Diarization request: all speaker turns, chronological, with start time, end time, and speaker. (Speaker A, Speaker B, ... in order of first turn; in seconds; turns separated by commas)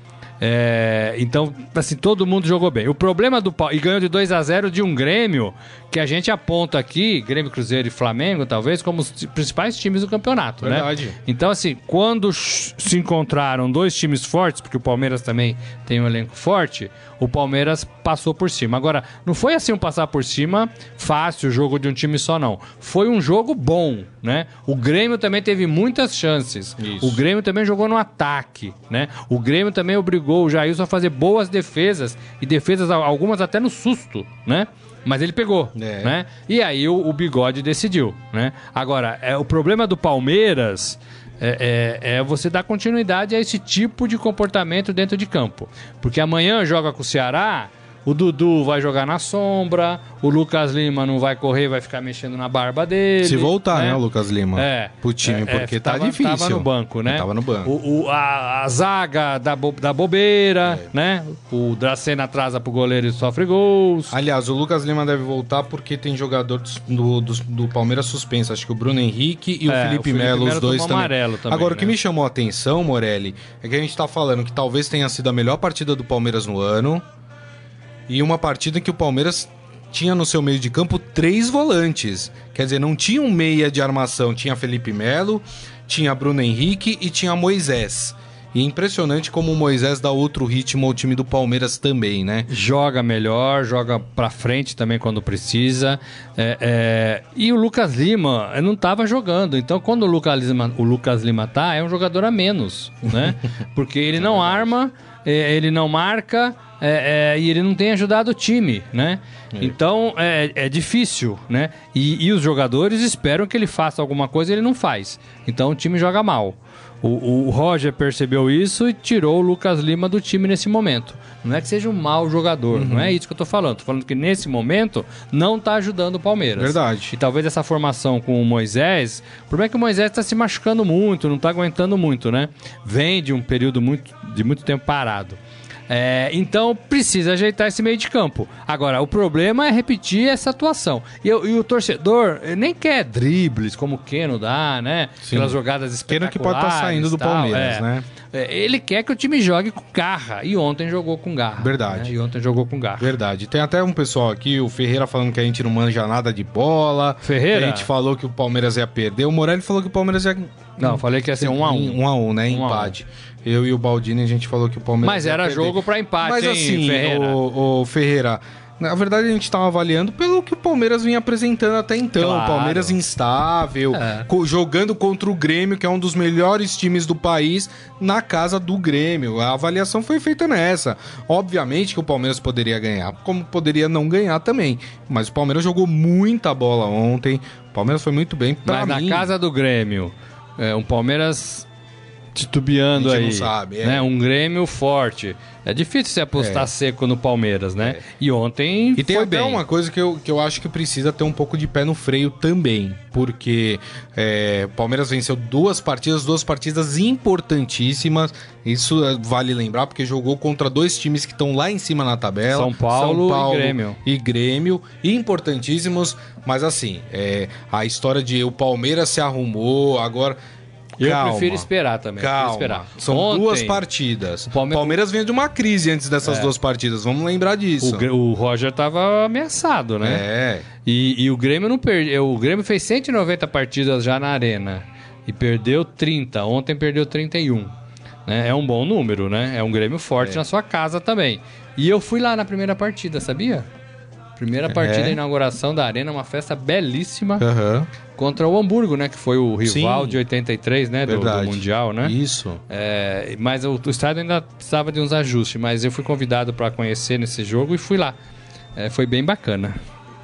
Speaker A: 0.4-54.0, Speaker B: 10.6-11.2, Speaker B: 26.8-27.2, Speaker B: 35.8-36.1, Speaker B: 53.2-57.7, Speaker A: 54.5-64.1, Speaker B: 64.1-77.0, Speaker A: 69.7-71.9, Speaker B: 78.1-92.5, Speaker A: 92.5-135.4, Speaker B: 104.2-104.7, Speaker B: 122.7-123.2, Speaker B: 126.6-127.1, Speaker A: 135.9-153.1, Speaker B: 145.2-145.6, Speaker B: 146.1-148.1, Speaker B: 151.6-152.1, Speaker B: 153.0-189.3, Speaker A: 157.2-157.9, Speaker A: 160.8-162.9, Speaker A: 165.0-167.4, Speaker A: 172.2-173.0, Speaker A: 173.9-174.3, Speaker A: 188.7-191.7, Speaker A: 192.3-199.6, Speaker B: 192.9-194.1, Speaker B: 196.4-196.7, Speaker B: 198.9-220.4, Speaker A: 212.5-214.0, Speaker A: 221.0-223.8, Speaker B: 221.0-221.7, Speaker B: 222.2-228.1, Speaker A: 224.5-225.0, Speaker A: 226.2-226.5, Speaker A: 227.8-230.2, Speaker B: 230.0-230.7, Speaker A: 230.8-237.7, Speaker A: 238.2-243.7, Speaker A: 244.4-247.4, Speaker B: 244.7-245.2, Speaker B: 247.4-247.9, Speaker A: 248.2-252.1, Speaker B: 249.6-250.2, Speaker B: 251.1-252.6, Speaker A: 252.7-258.1, Speaker A: 258.8-259.8